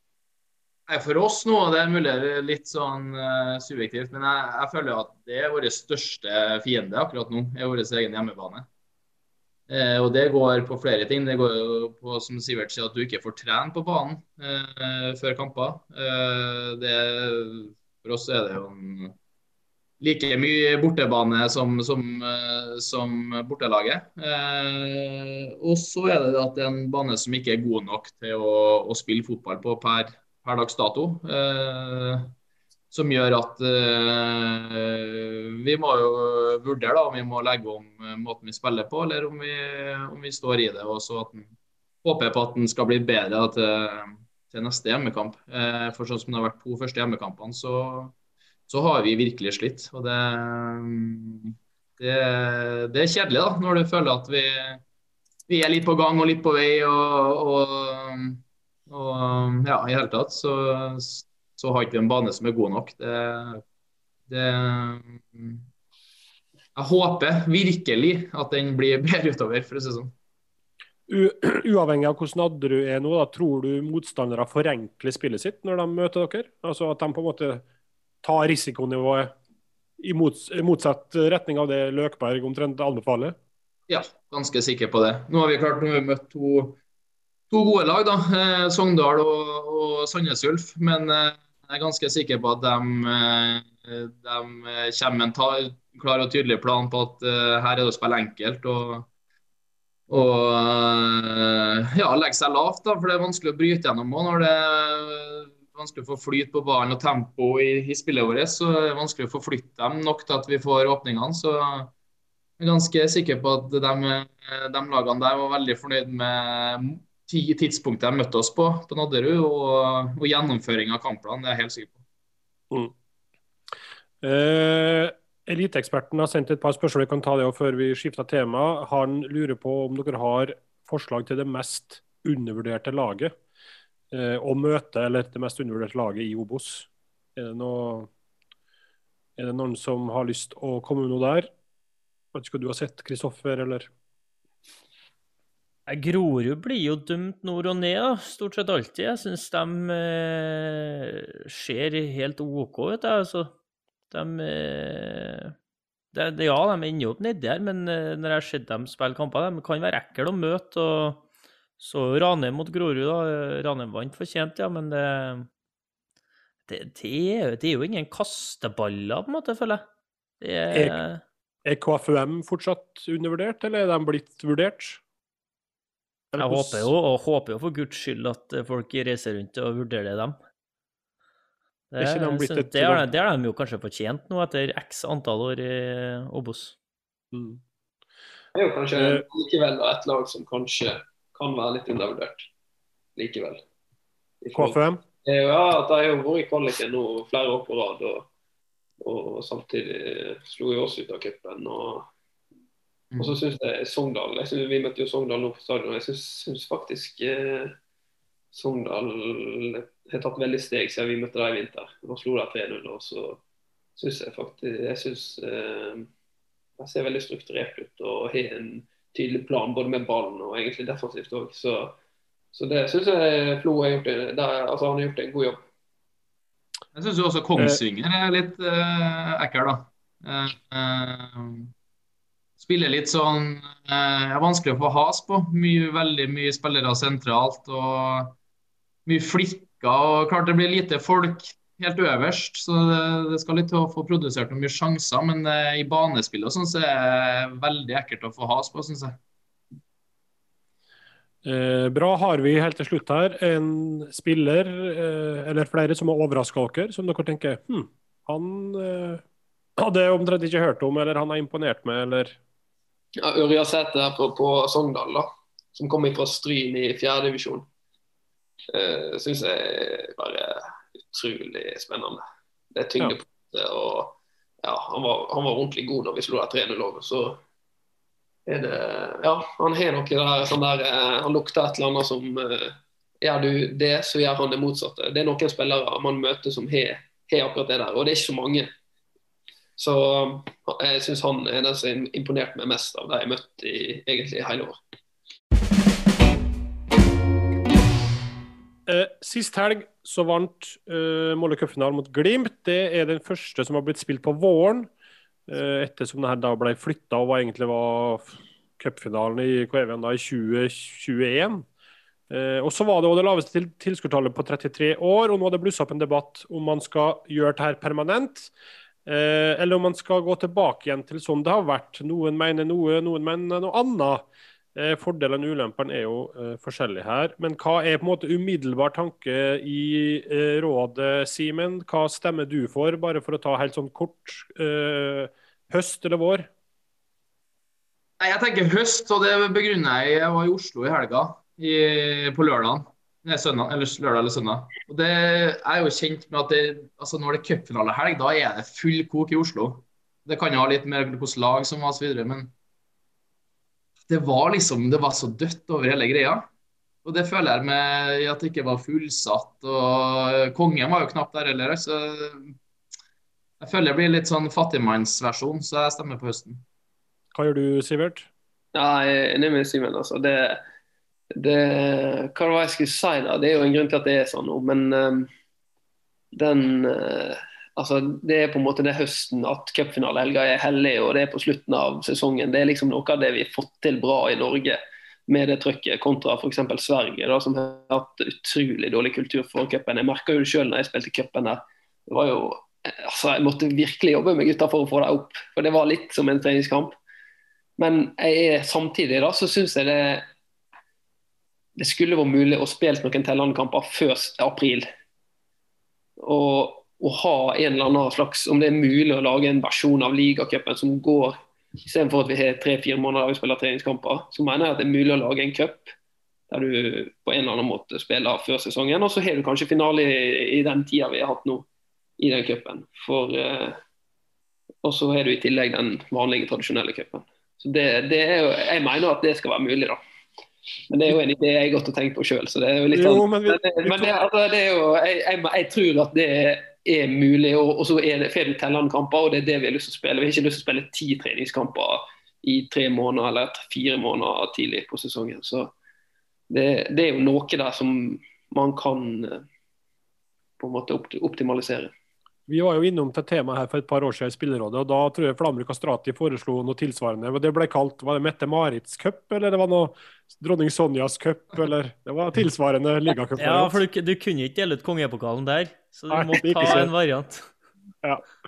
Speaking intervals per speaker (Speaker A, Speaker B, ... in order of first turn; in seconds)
Speaker A: 0.9-8.7, 9.7-19.1, 20.0-32.3, 32.9-41.5, 42.0-48.1, 48.7-54.8, 55.5-63.6, 64.3-65.6, 66.8-70.1, 83.9-86.8, 87.5-99.1, 100.1-111.9, 112.6-122.0, 226.9-231.7, 232.6-238.4, 239.1-249.2, 338.2-352.5, 354.1-356.5, 357.1-362.6, 363.6-366.6
Speaker B: 71.1-77.6, 78.2-79.3, 80.0-83.3, 124.2-133.3, 134.1-138.1, 139.4-141.5, 142.3-143.9, 170.7-171.0, 171.7-175.0, 176.3-176.9, 182.0-183.1, 187.3-187.6, 188.9-189.2, 194.5-195.0, 251.4-259.2, 259.8-262.4, 298.9-304.9, 305.5-311.7, 312.3-318.5, 319.1-336.5, 367.3-368.3, 432.9-434.1, 452.5-463.8, 466.1-466.9
Speaker C: 145.9-153.5, 154.1-155.5, 156.1-161.2, 161.8-165.5, 166.7-169.8, 170.4-171.2, 176.4-180.4, 181.9-186.8, 463.4-467.5
Speaker D: 188.6-192.5, 193.2-193.6, 194.4-198.3, 199.0-202.1, 203.2-207.8, 208.5-213.4, 214.0-216.1, 216.8-221.9, 222.5-225.6, 263.2-267.7, 268.7-272.2, 272.7-277.4, 278.5-288.7, 289.8-294.8, 368.7-370.6, 371.4-375.3, 376.3-397.0, 397.8-400.3, 401.8-404.9, 406.2-415.9, 416.5-421.7, 422.2-423.8, 424.8-430.0, 430.9-445.7, 446.5-449.4, 450.6-451.9